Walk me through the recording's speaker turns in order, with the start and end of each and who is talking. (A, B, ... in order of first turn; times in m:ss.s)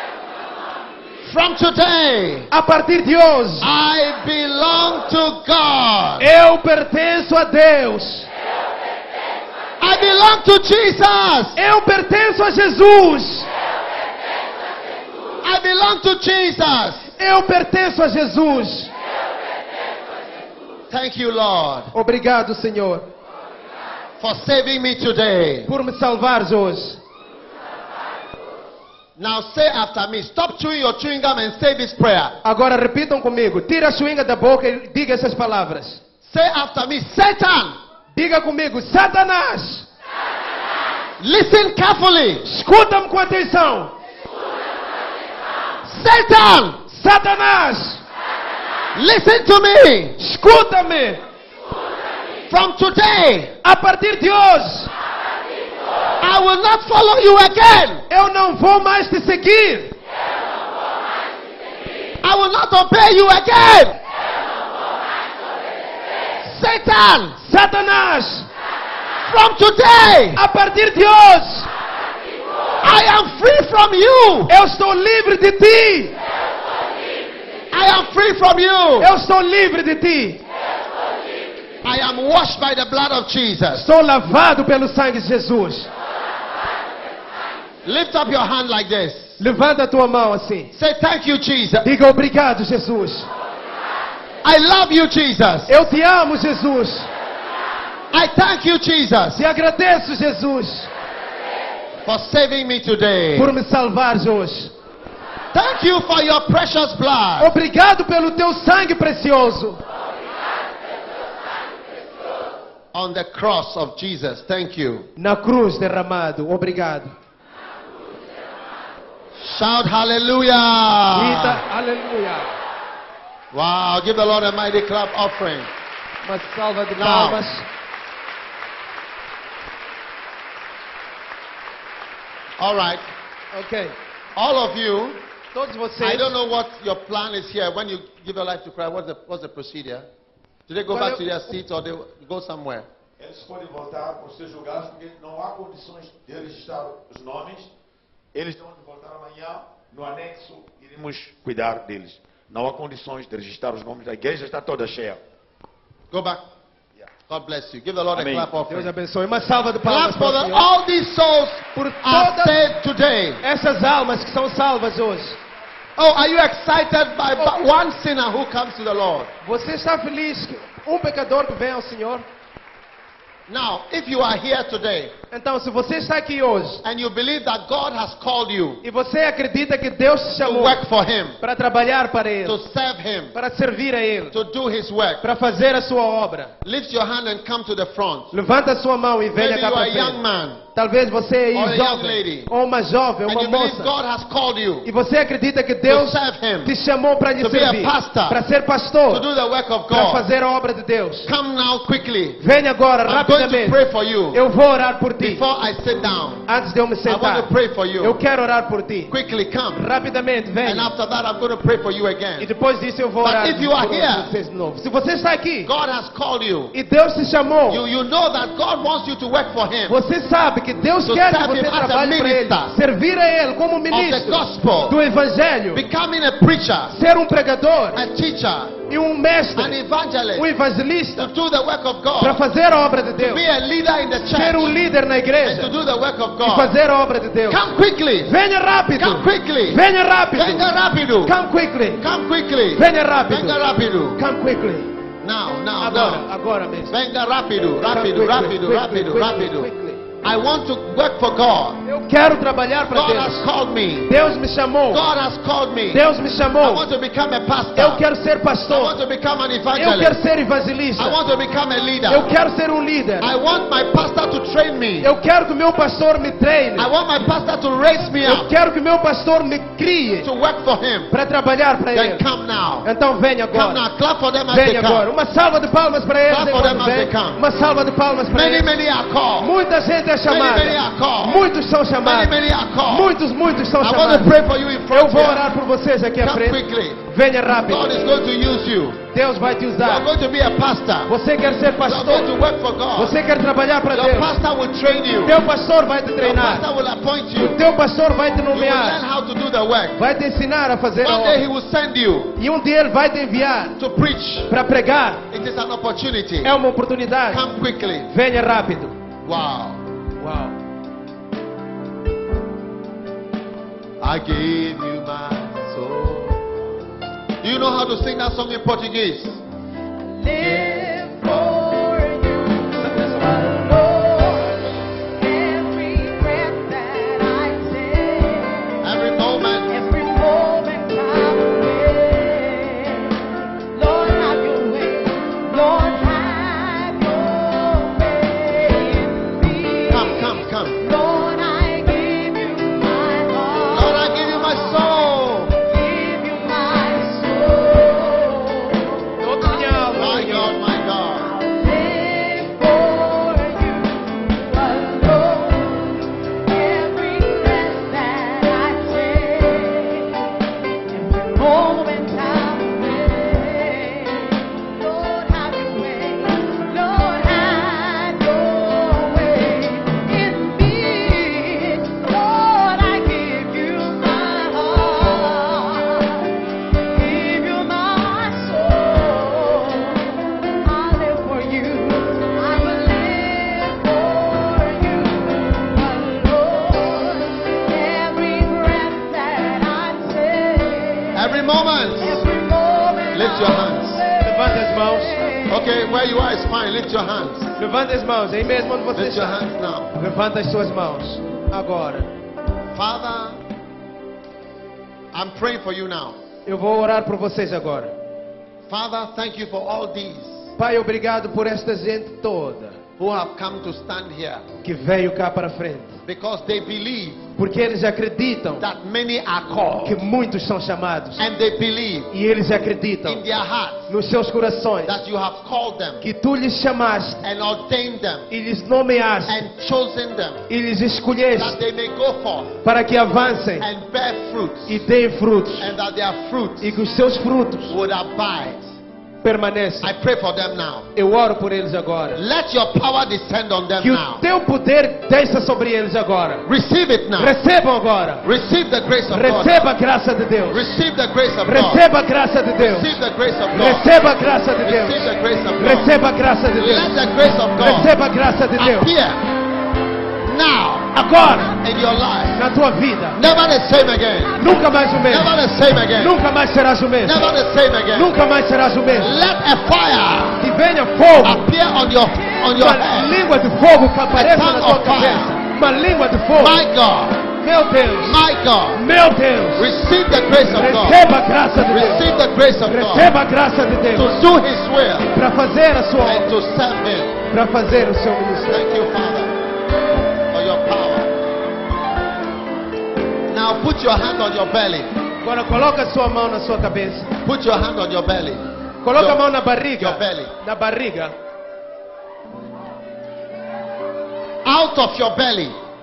0:01.2-0:02.5 A
0:02.5-0:03.7 B
0:03.6-0:06.3 A
0:06.2-0:08.3 B
0:09.8-0:11.6 A
0:11.6-0:13.5 B
0:15.4-0:17.1 A
0:17.2-0:18.9 B
0:20.9-0:21.9 A
0:21.9-0:23.1 B
0:24.2-0:25.7 A
0:25.7-0:27.0 B
0:29.2-0:32.4 A
0:32.4-0:36.0 B
0:36.2-0:37.8 A
0:38.1-0:39.9 B
0:41.2-0:42.5 A
0:42.4-0:43.9 B
0:45.8-0:46.8 A
0:46.9-0:48.0 B
0:49.0-0:50.2 A
0:50.2-0:51.2 B
0:52.5-0:53.6 A
0:53.6-0:54.9 B
0:56.2-0:58.0 A
0:58.1-0:59.9 B
1:02.2-1:04.0 A
1:06.4-1:07.4 A
1:07.4-1:08.5 B
1:09.2-1:10.4 A
1:10.4-1:11.7 B
1:12.8-1:14.5 A
1:14.5-1:16.2 B
1:17.7-1:19.1 A
1:19.0-1:20.4 B
1:21.8-1:23.9 A
1:23.7-1:25.9 B
1:27.8-1:29.4 A
1:29.4-1:30.7 B
1:30.7-1:31.9 A
1:31.8-1:33.3 B
1:34.4-1:35.7 A
1:35.7-1:37.1 B
1:38.1-1:39.4 A
1:39.3-1:40.9 B
1:42.0-1:43.5 A
1:43.4-1:44.7 B
1:45.5-1:47.5 A
1:47.4-1:49.8 B
1:52.9-1:55.1 A
1:55.2-1:57.1 B
1:59.4-2:01.6 A
2:01.1-2:02.5 B
2:03.5-2:05.7 A
2:06.2-2:07.7 B
2:07.0-2:07.4 A
2:12.6-2:13.0 A
2:13.5-2:14.0 B
2:14.4-2:15.2 A
2:15.5-2:16.4 B
2:16.0-2:20.1 A
2:20.7-2:22.9 A
2:20.9-2:21.5 B
2:23.2-2:27.7 C
2:28.3-2:35.2 C
2:36.1-2:36.4 A
2:37.3-2:38.9 A
2:38.2-2:38.5 C
2:38.7-2:40.7 B
2:39.8-2:43.4 A
2:41.8-2:42.6 B
2:43.4-2:45.4 B
2:46.0-2:49.3 A
2:49.4-2:52.2 B
2:53.5-2:55.1 A
2:55.3-2:56.8 B
2:56.8-2:58.8 A
2:58.8-3:00.8 B
3:00.4-3:01.4 A
3:01.4-3:02.6 B
3:02.4-3:03.3 A
3:03.3-3:04.4 B
3:04.3-3:05.2 A
3:05.2-3:06.5 B
3:06.6-3:08.3 A
3:08.3-3:10.2 B
3:09.3-3:10.6 A
3:10.8-3:13.9 B
3:11.5-3:12.5 A
3:13.3-3:14.9 A
3:14.8-3:19.3 B
3:15.9-3:16.7 A
3:17.4-3:18.4 A
3:19.1-3:20.3 A
3:19.9-3:21.3 B
3:21.2-3:22.4 A
3:22.4-3:23.8 B
3:23.0-3:24.4 A
3:24.3-3:25.4 B
3:25.2-3:26.4 A
3:26.5-3:29.1 B
3:27.1-3:28.2 A
3:29.1-3:29.8 A
3:29.8-3:30.9 B
3:30.6-3:32.5 A
3:32.4-3:35.7 B
3:33.2-3:34.3 A
3:35.6-3:36.7 A
3:36.7-3:37.8 B
3:37.7-3:40.0 A
3:39.9-3:45.8 B
3:41.0-3:42.8 A
3:43.9-3:45.0 A
3:45.7-3:47.0 A
3:46.9-3:48.0 B
3:47.9-3:48.8 A
3:48.9-3:49.8 B
3:49.6-3:50.5 A
3:50.4-3:51.3 B
3:51.2-3:52.4 A
3:52.2-3:53.4 B
3:53.2-3:54.8 A
3:54.3-3:55.7 B
3:55.4-3:56.7 A
3:56.4-3:57.6 B
3:57.5-3:58.3 A
3:58.2-4:00.7 B
3:59.0-4:01.4 A
4:01.2-4:02.0 B
4:02.0-4:04.2 A
4:02.8-4:03.6 B
4:04.2-4:04.9 B
4:05.2-4:06.3 A
4:05.8-4:07.0 B
4:06.9-4:09.7 A
4:07.9-4:10.0 B
4:10.2-4:11.8 A
4:11.8-4:13.4 B
4:12.9-4:14.1 A
4:14.1-4:15.1 B
4:14.9-4:16.1 A
4:15.9-4:16.9 B
4:16.6-4:18.0 A
4:17.8-4:19.0 B
4:18.7-4:20.2 A
4:19.8-4:21.2 B
4:21.0-4:22.3 A
4:22.1-4:23.3 B
4:23.2-4:25.1 A
4:25.0-4:26.9 B
4:26.8-4:28.5 A
4:28.2-4:30.3 B
4:30.2-4:31.1 A
4:31.1-4:32.2 B
4:31.9-4:32.9 A
4:32.8-4:33.8 B
4:33.5-4:35.1 A
4:34.5-4:38.7 B
4:36.3-4:37.4 A
4:38.3-4:39.6 A
4:39.4-4:44.4 B
4:40.3-4:41.5 A
4:42.0-4:43.2 A
4:43.8-4:45.4 A
4:44.9-4:48.0 B
4:46.2-4:47.0 A
4:47.7-4:49.0 A
4:49.1-4:50.1 B
4:49.8-4:51.1 A
4:51.1-4:52.3 B
4:51.8-4:53.2 A
4:53.0-4:54.4 B
4:53.9-4:55.4 A
4:55.2-4:56.6 B
4:56.2-4:57.6 A
4:57.4-4:59.0 B
4:58.5-5:00.0 A
5:00.0-5:01.4 B
5:01.0-5:02.4 A
5:02.4-5:03.8 B
5:03.8-5:04.5 A
5:04.5-5:05.2 B
5:05.3-5:06.6 A
5:06.4-5:07.4 B
5:07.3-5:08.1 A
5:08.1-5:09.0 B
5:09.2-5:09.8 A
5:10.2-5:10.6 B
5:14.0-5:16.6 A
5:17.4-5:19.4 A
5:20.0-5:28.8 D
5:20.4-5:21.4 A
5:28.8-5:29.8 A
5:29.7-5:45.0 D
5:39.9-5:40.8 A
5:43.7-5:45.6 A
5:45.5-5:50.0 D
5:49.2-5:50.6 B
5:50.0-5:51.3 A
5:51.2-6:00.3 D
6:00.9-6:31.4 D
6:31.1-6:32.2 A
6:32.0-6:35.6 D
6:33.1-6:34.0 A
6:34.2-6:35.2 B
6:35.5-6:37.6 A
6:37.6-6:39.4 B
6:39.0-6:39.9 A
6:40.0-6:42.1 B
6:42.7-6:43.4 A
6:45.1-6:46.2 A
6:46.5-6:47.9 B
6:48.7-6:50.5 A
6:50.6-6:52.8 B
6:53.0-6:54.5 A
6:54.6-6:56.0 B
6:56.0-6:57.3 A
6:57.4-6:58.6 B
6:58.6-7:00.0 A
6:59.8-7:01.2 B
7:01.2-7:02.1 A
7:02.1-7:03.2 B
7:03.0-7:03.9 A
7:03.9-7:05.0 B
7:04.8-7:06.0 A
7:06.0-7:07.2 B
7:07.2-7:08.3 A
7:08.3-7:09.4 B
7:09.3-7:10.4 A
7:10.5-7:11.6 B
7:11.4-7:12.6 A
7:12.6-7:13.7 B
7:13.6-7:14.8 A
7:14.7-7:15.7 B
7:15.6-7:16.8 A
7:16.6-7:17.8 B
7:17.7-7:18.7 A
7:19.2-7:19.9 B
7:19.8-7:20.9 A
7:21.0-7:22.2 B
7:22.2-7:24.2 A
7:23.8-7:26.4 B
7:26.4-7:27.4 A
7:27.2-7:28.2 B
7:28.2-7:29.7 A
7:29.1-7:30.7 B
7:30.5-7:31.9 A
7:31.4-7:33.0 B
7:32.6-7:33.9 A
7:33.5-7:37.0 B
7:34.6-7:35.9 A
7:36.6-7:37.9 A
7:37.6-7:38.9 B
7:38.6-7:39.2 A
7:40.2-7:42.4 A
7:40.9-7:41.6 B
7:42.4-7:43.2 B
7:43.2-7:44.4 A
7:44.4-7:47.2 B
7:44.4-7:44.8 D
7:45.1-7:46.2 A
7:47.0-7:48.1 A
7:47.9-7:49.2 B
7:48.9-7:50.4 A
7:50.4-7:51.5 B
7:51.2-7:53.2 A
7:52.5-7:56.6 B
7:54.1-7:55.4 A
7:56.4-7:57.3 A
7:57.4-7:58.2 B
7:58.0-7:58.8 A
7:58.7-7:59.7 B
7:59.6-8:01.0 A
8:00.4-8:02.1 B
8:01.6-8:03.1 A
8:02.6-8:04.1 B
8:03.9-8:05.1 A
8:05.1-8:06.4 B
8:06.0-8:07.2 A
8:07.3-8:08.6 B
8:08.5-8:09.3 A
8:10.3-8:11.1 A
8:13.3-8:15.0 A
8:15.2-8:17.1 B
8:17.2-8:20.3 A
8:18.8-8:21.1 B
8:24.4-8:25.6 A